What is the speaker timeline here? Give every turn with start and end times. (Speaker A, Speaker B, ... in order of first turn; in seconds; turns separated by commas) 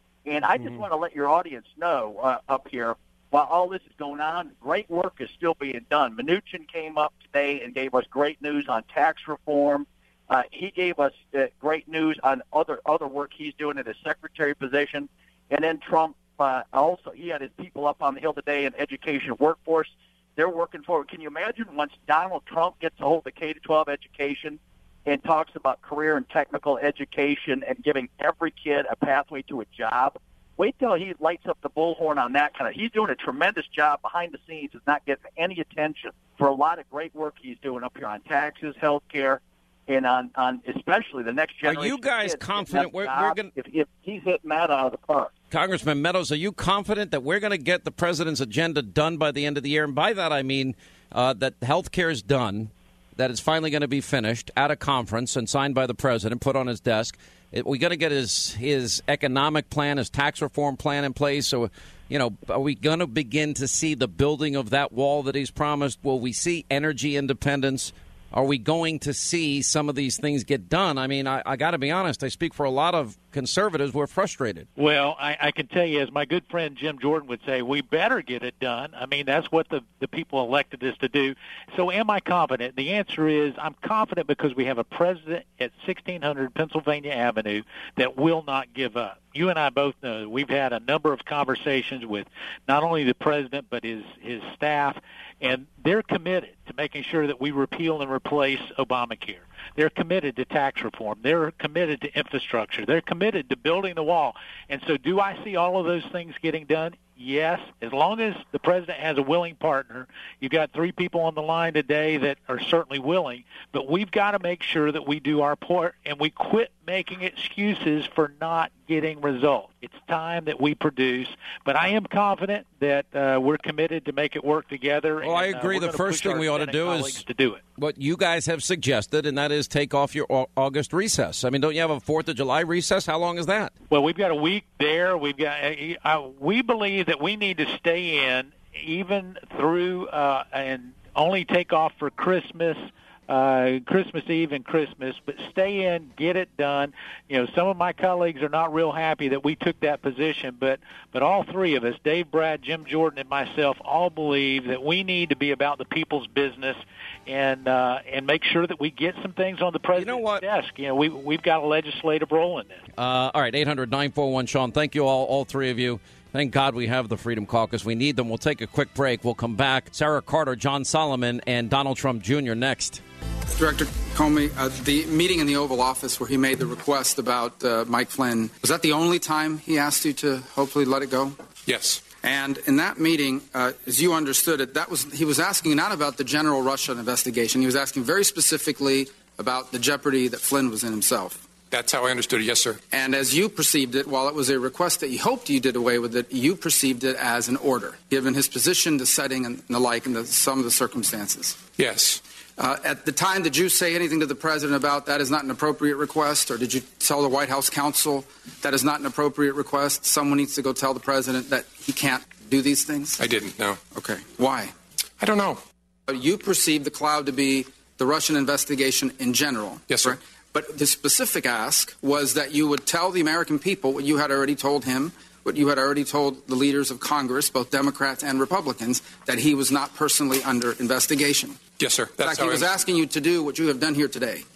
Speaker A: 0.2-45.3, Speaker B: 41.6-43.5, Speaker B: 45.5-74.7, Speaker C: 74.8-127.6, Speaker B: 125.2-127.2, Speaker B: 127.8-133.7, Speaker C: 133.9-162.8, Speaker B: 159.9-160.4, Speaker B: 163.0-173.0, Speaker D: 173.5-181.4, Speaker E: 181.7-182.0, Speaker D: 182.2-191.4, Speaker E: 191.7-192.8, Speaker D: 192.9-201.6, Speaker E: 201.8-202.2, Speaker D: 202.6-213.2, Speaker E: 213.2-213.8, Speaker D: 213.9-214.7, Speaker E: 215.2-215.6, Speaker D: 216.1-231.6, Speaker E: 219.9-220.2, Speaker E: 231.8-232.7, Speaker D: 232.2-234.4